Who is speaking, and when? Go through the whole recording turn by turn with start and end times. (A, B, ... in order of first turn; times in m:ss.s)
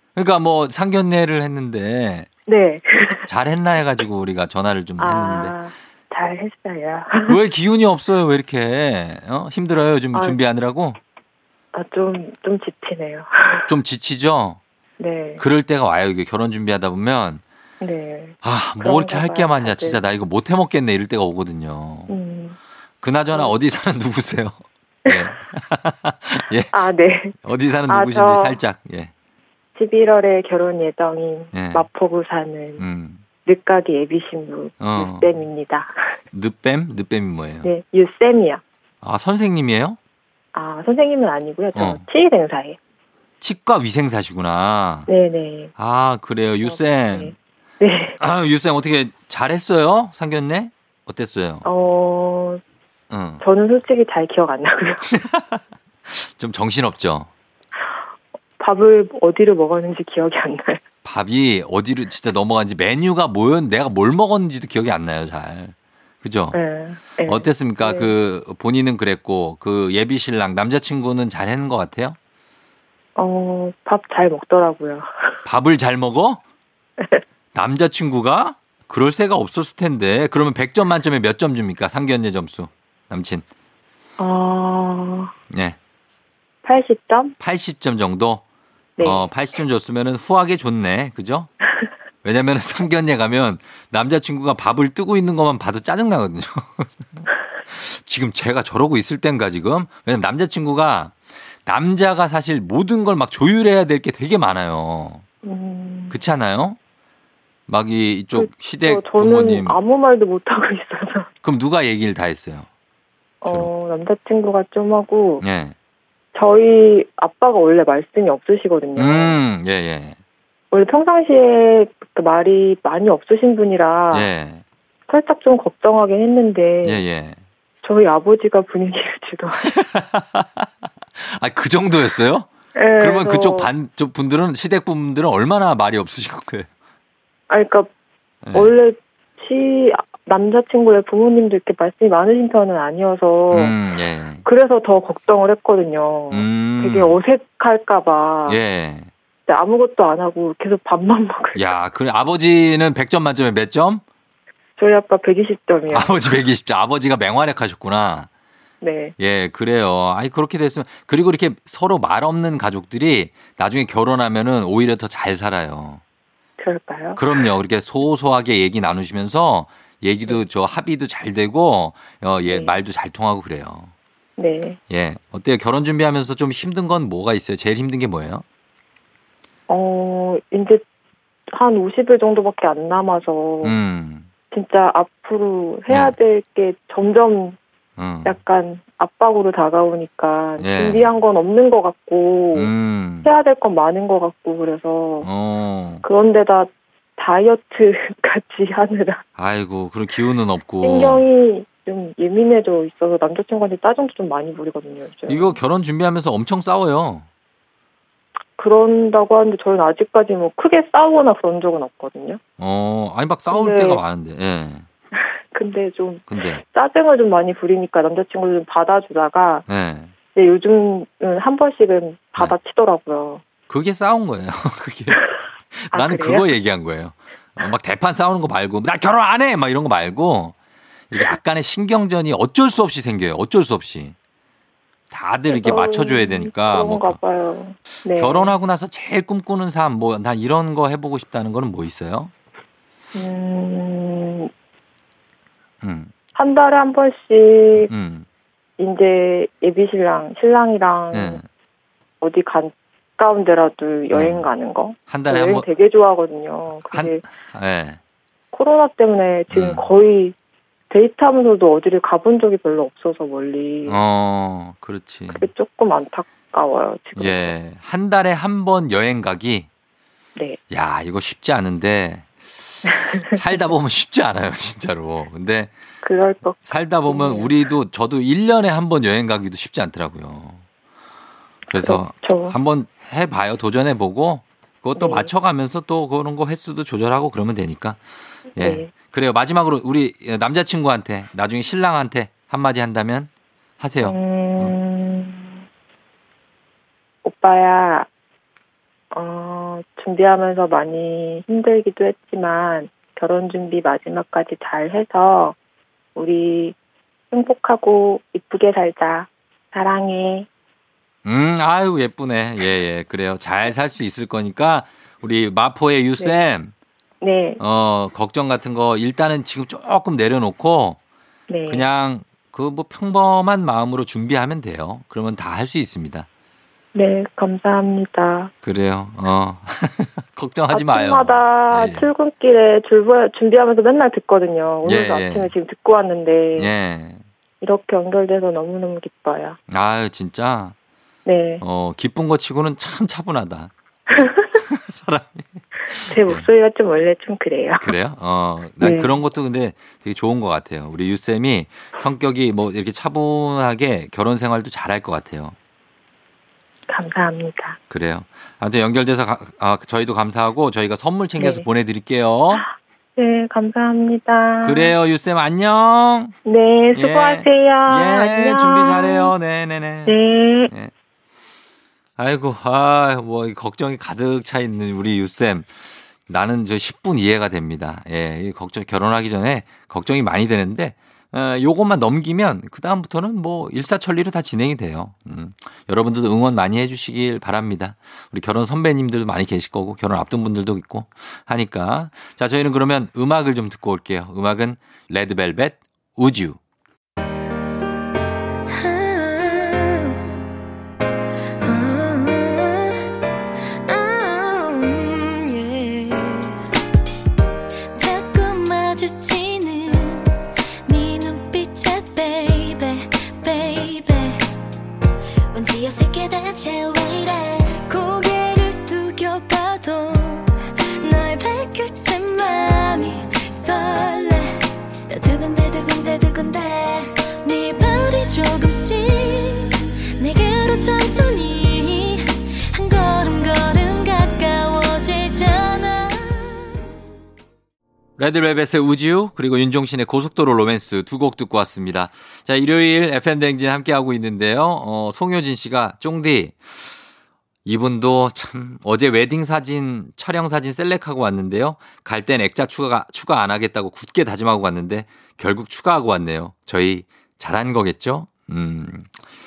0:00.2-0:02.3 A
0:02.5-0:03.2 B
0:03.3-0:05.5 A
0:05.0-0:07.4 B
0:07.2-0:11.0 A
0:11.7-0:13.7 B
0:13.7-0:14.6 A
0:15.0-0:15.4 B
0:15.4-0:17.4 A
0:17.8-0:20.0 B
0:18.4-0:22.1 A
0:22.1-0:22.6 B
0:23.0-0:26.7 A
0:26.7-0:27.3 B
0:27.4-0:29.1 A
0:27.9-0:28.6 B
0:29.8-0:32.8 B
0:31.5-0:31.8 A
0:32.8-0:33.2 A
0:33.4-0:36.0 B
0:34.8-0:35.2 A
0:36.3-0:37.7 A
0:37.6-0:38.6 B
0:39.0-0:40.0 A
0:40.5-0:42.8 B
0:41.8-0:42.0 A
0:43.4-0:45.1 A
0:45.1-0:45.7 B
0:45.8-0:47.3 A
0:46.6-0:48.2 B
0:48.2-0:51.6 A
0:51.6-0:52.6 B
0:53.1-0:53.4 A
0:53.4-0:55.2 B
0:55.2-0:57.3 A
0:58.6-1:00.8 B
1:01.0-1:06.6 A
1:06.5-1:08.1 B
1:07.2-1:12.2 A
1:13.2-1:15.4 B
1:15.4-1:16.4 A
1:17.5-1:23.4 A
1:24.2-1:25.3 B
1:25.5-1:25.8 A
1:26.6-1:27.3 B
1:27.4-1:28.4 A
1:29.0-1:29.3 B
1:29.0-1:31.5 A
1:32.2-1:36.9 A
1:37.7-1:41.1 A
1:41.6-1:45.2 A
1:45.4-1:46.2 B
1:46.1-1:46.8 A
1:47.7-1:49.8 A
1:48.3-1:51.3 B
1:51.4-1:52.7 A
1:53.4-1:55.4 B
1:55.4-1:55.7 A
1:56.3-1:59.3 B
1:59.0-2:00.2 A
2:00.7-2:04.3 B
2:04.1-2:04.6 A
2:05.1-2:07.0 B
2:06.8-2:07.4 A
2:07.8-2:09.7 B
2:09.6-2:10.6 A
2:11.2-2:16.7 A
2:12.8-2:13.7 B
2:17.5-2:17.9 B
2:18.4-2:18.7 A
2:18.5-2:23.7 B
2:23.5-2:24.4 A
2:24.4-2:28.6 B
2:26.3-2:27.2 A
2:28.5-2:29.1 A
2:29.5-2:31.6 B
2:31.6-2:34.0 A
2:34.8-2:36.3 B
2:35.9-2:38.3 A
2:38.8-2:39.1 B
2:39.2-2:46.0 A
2:46.6-2:47.2 B
2:47.2-2:53.9 A
2:54.4-2:54.8 B
2:54.9-2:58.4 A
2:59.7-3:00.8 B
3:01.5-3:03.7 B
3:03.6-3:04.3 A
3:04.5-3:07.6 B
3:05.9-3:06.1 A
3:08.0-3:08.4 A
3:08.2-3:12.7 B
3:10.6-3:11.0 A
3:12.5-3:13.3 A
3:13.2-3:15.3 B
3:15.2-3:16.0 A
3:16.0-3:19.2 B
3:19.4-3:21.2 A
3:20.8-3:25.6 B
3:25.3-3:27.3 A
3:28.6-3:32.4 B
3:32.6-3:34.9 A
3:33.5-3:34.0 B
3:35.5-3:39.6 B
3:36.3-3:36.6 A
3:39.7-3:40.1 A
3:40.3-3:43.4 B
3:43.7-3:50.5 A
3:45.9-3:46.4 B
3:51.1-3:54.1 A
3:55.1-3:57.2 A
3:55.5-3:58.5 B
3:58.2-4:02.3 A
4:03.1-4:04.5 B
4:05.8-4:06.1 A
4:06.4-4:07.9 B
4:07.7-4:08.2 A
4:08.8-4:11.4 B
4:11.1-4:11.4 A
4:12.2-4:17.2 B
4:14.1-4:14.5 A
4:15.1-4:15.7 A
4:16.9-4:18.0 A
4:18.5-4:20.3 B
4:19.5-4:19.8 A
4:20.9-4:24.0 B
4:23.8-4:25.4 A
4:25.3-4:27.5 B
4:27.2-4:29.7 A
4:30.7-4:32.3 A
4:32.9-4:33.4 B
4:33.3-4:35.7 A
4:36.0-4:37.5 B
4:36.6-4:40.6 A
4:41.7-4:48.0 A
4:41.8-4:42.5 B
4:45.0-4:45.3 B
4:48.6-4:54.7 A
4:48.6-4:48.9 B
4:54.0-4:55.6 B
4:57.2-4:58.1 B
4:59.1-5:05.6 B
5:06.1-5:06.8 B
5:07.3-5:10.5 B
5:11.2-5:16.7 A
5:17.2-5:17.6 B
5:17.6-5:21.0 A
5:21.5-5:21.8 B
5:21.7-5:26.3 A
5:26.9-5:28.5 B
5:28.6-5:32.1 A
5:30.7-5:36.7 B
5:34.8-5:35.5 A
5:36.6-5:37.2 A
5:37.6-5:39.6 B
5:39.7-5:40.7 A
5:41.2-5:41.6 B
5:41.6-5:43.7 A
5:44.1-5:44.5 B
5:44.6-5:45.5 A
5:46.0-5:47.9 B
5:46.1-5:46.4 A
5:47.8-5:55.6 A
5:48.8-5:49.1 B
5:56.9-5:57.8 B
5:57.9-6:02.6 A
6:01.4-6:01.6 B
6:02.5-6:04.9 B
6:04.6-6:06.3 A
6:06.4-6:09.3 B
6:06.9-6:10.1 A
6:10.0-6:10.7 B
6:12.2-6:15.7 A
6:16.3-6:36.6 A
6:38.7-6:40.2 C
6:41.6-6:43.0 C
6:43.8-6:46.5 C
6:47.9-6:54.4 C
6:55.5-7:16.8 C
7:18.2-7:26.6 A
7:27.6-7:39.1 A